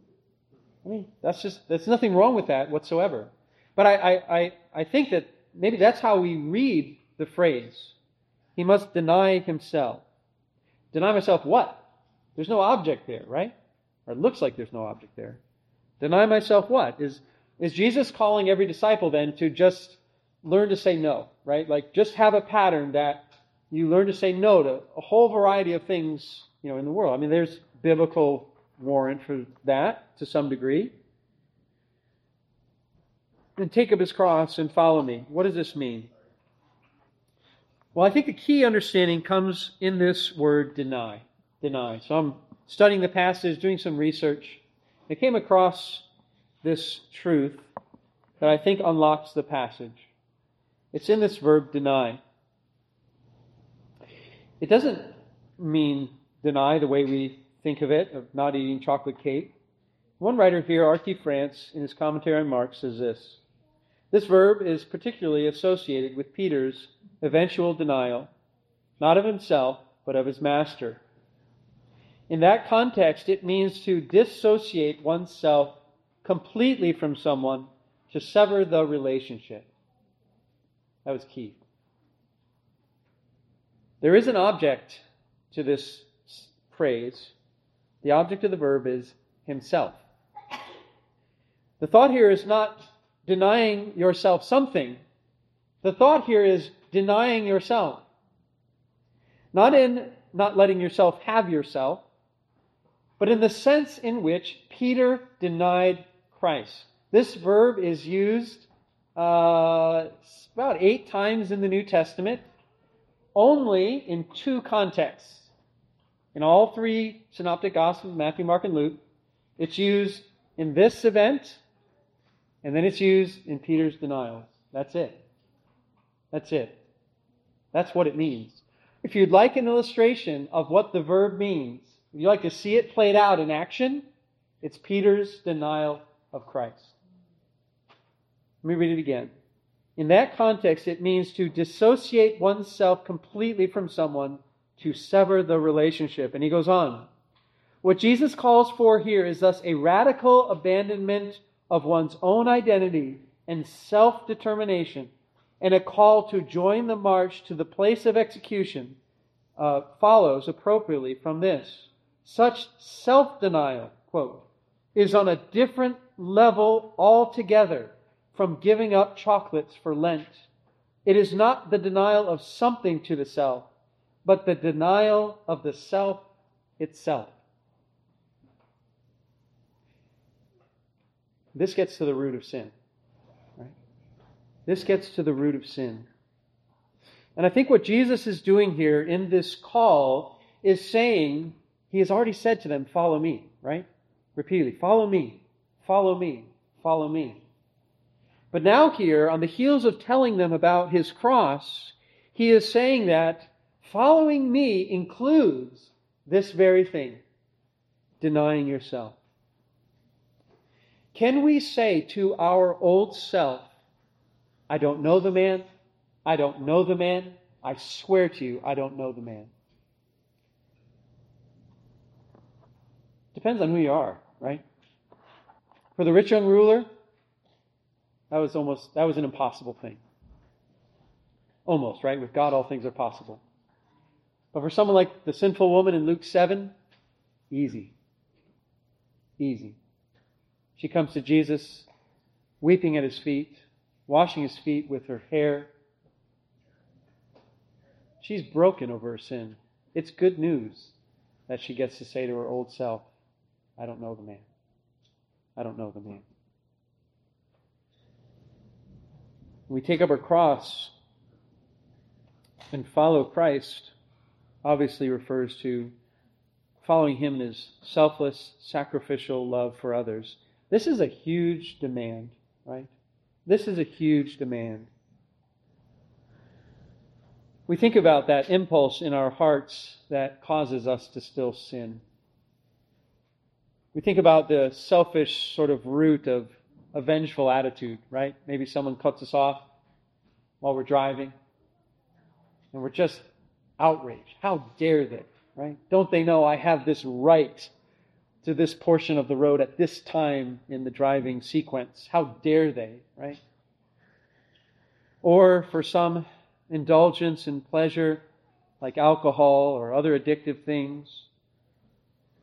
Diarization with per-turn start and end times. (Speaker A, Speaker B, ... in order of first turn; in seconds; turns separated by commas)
Speaker A: 0.8-7.9, Speaker A: 8.6-10.0, Speaker A: 10.9-11.8, Speaker A: 12.3-13.5, Speaker A: 14.1-15.4, Speaker A: 16.0-30.9, Speaker A: 33.6-36.1, Speaker A: 37.9-46.0, Speaker A: 46.6-47.7, Speaker A: 48.4-50.1, Speaker A: 50.9-52.2, Speaker A: 54.6-59.5, Speaker A: 60.2-63.4, Speaker A: 64.1-68.3, Speaker A: 69.0-71.0, Speaker A: 72.3-79.7, Speaker A: 81.0-81.6, Speaker A: 84.0-87.3, Speaker A: 88.0-90.0, Speaker A: 91.8-95.0, Speaker A: 95.8-98.0, Speaker A: 99.5-102.0, Speaker A: 103.2-112.4, Speaker A: 113.3-115.5, Speaker A: 116.3-119.0, Speaker A: 119.6-121.6, Speaker A: 122.6-125.2, Speaker A: 126.3-126.8, Speaker A: 127.7-134.1, Speaker A: 134.6-137.0, Speaker A: 138.6-139.3, Speaker A: 140.0-147.1, Speaker A: 147.8-159.0, Speaker A: 159.6-170.4, Speaker A: 171.0-173.7, Speaker A: 174.2-176.2, Speaker A: 176.8-177.4, Speaker A: 181.5-182.7, Speaker A: 184.7-186.1, Speaker A: 187.3-197.4, Speaker A: 198.5-207.2, Speaker A: 208.2-209.2, Speaker A: 211.1-213.7, Speaker A: 214.7-215.7, Speaker A: 216.2-219.5, Speaker A: 223.3-224.6, Speaker A: 225.9-226.9, Speaker A: 228.3-230.0, Speaker A: 231.7-233.4, Speaker A: 234.5-236.7, Speaker A: 237.5-237.9, Speaker A: 239.4-239.8, Speaker A: 240.8-241.9, Speaker A: 242.6-245.7, Speaker A: 248.2-250.9, Speaker A: 251.5-253.1, Speaker A: 253.8-254.5, Speaker A: 255.6-256.2, Speaker A: 259.7-260.9, Speaker A: 262.7-263.9, Speaker A: 264.6-265.9, Speaker A: 266.8-272.9, Speaker A: 273.4-274.9, Speaker A: 277.7-282.0, Speaker A: 283.9-289.6, Speaker A: 290.6-291.3, Speaker A: 292.7-293.2, Speaker A: 293.8-297.7, Speaker A: 298.4-303.4, Speaker A: 305.2-308.2, Speaker A: 308.8-311.3